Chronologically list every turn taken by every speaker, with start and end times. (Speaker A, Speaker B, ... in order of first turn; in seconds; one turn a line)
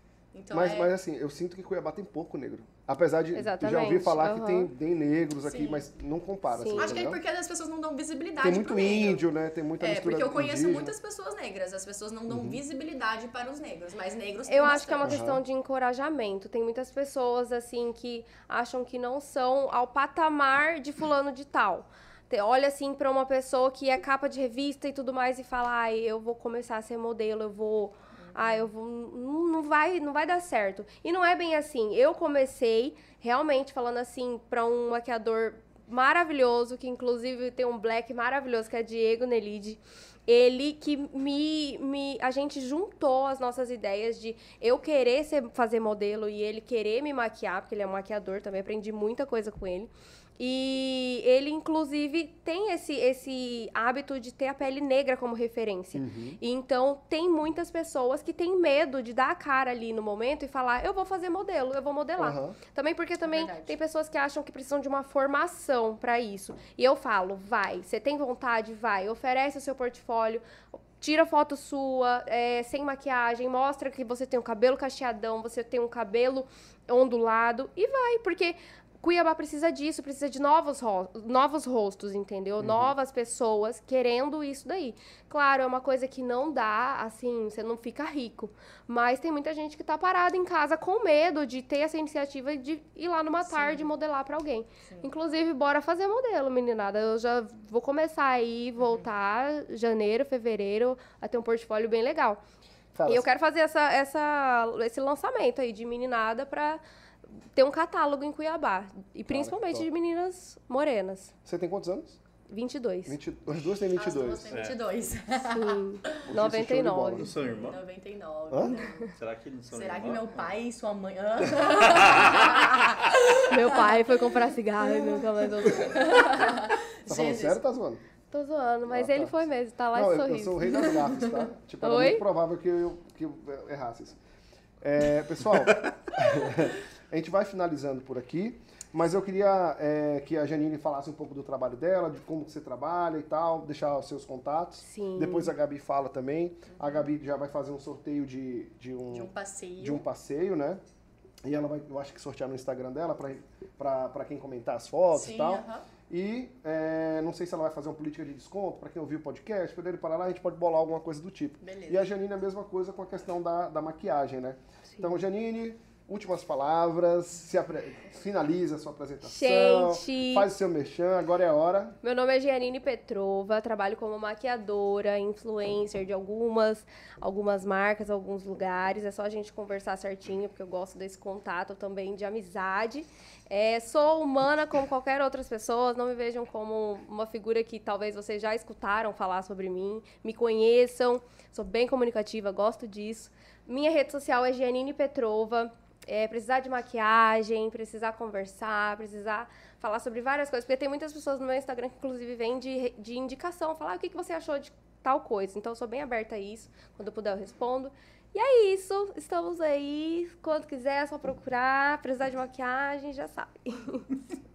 Speaker A: 0.3-0.9
Speaker B: 0.5-7.2
Speaker C: 3.4-4.7
Speaker A: 5.4-5.9
Speaker C: 6.5-7.0
Speaker A: 6.7-9.3
Speaker B: 8.4-10.9
Speaker A: 9.8-15.2
Speaker B: 12.3-12.6
Speaker C: 14.5-102.4
Speaker B: 15.0-15.4
Speaker A: 28.2-28.7
Speaker B: 55.9-56.4
Speaker B: 62.2-62.6
Speaker A: 63.2-63.8
Speaker B: 82.6-82.9
Speaker A: 93.4-93.9
Speaker B: 102.9-103.3
Speaker C: 103.1-106.8
Speaker C: 107.5-111.3
Speaker B: 109.3-109.9
Speaker B: 111.5-112.2
Speaker C: 112.5-113.2
Speaker B: 113.1-114.5
Speaker A: 113.9-116.2
Speaker D: 114.5-114.8
Speaker C: 115.5-117.3
Speaker B: 116.2-117.3
Speaker D: 117.2-117.8
Speaker A: 117.4-119.1
Speaker B: 118.5-118.8
Speaker D: 119.1-120.5
Speaker A: 119.7-124.1
Speaker D: 121.5-122.9
Speaker C: 123.5-126.3
Speaker A: 124.8-127.6
Speaker B: 127.1-128.0
Speaker C: 128.3-130.8
Speaker B: 128.9-134.2
Speaker A: 130.7-131.5
Speaker C: 131.8-132.2
Speaker B: 134.8-150.8
Speaker C: 144.8-145.5
Speaker A: 146.7-147.0
Speaker A: 149.1-150.1
Speaker B: 151.4-172.0
Speaker A: 155.1-155.8
Speaker A: 161.6-162.1
Speaker C: 169.2-170.5
Speaker C: 172.0-214.1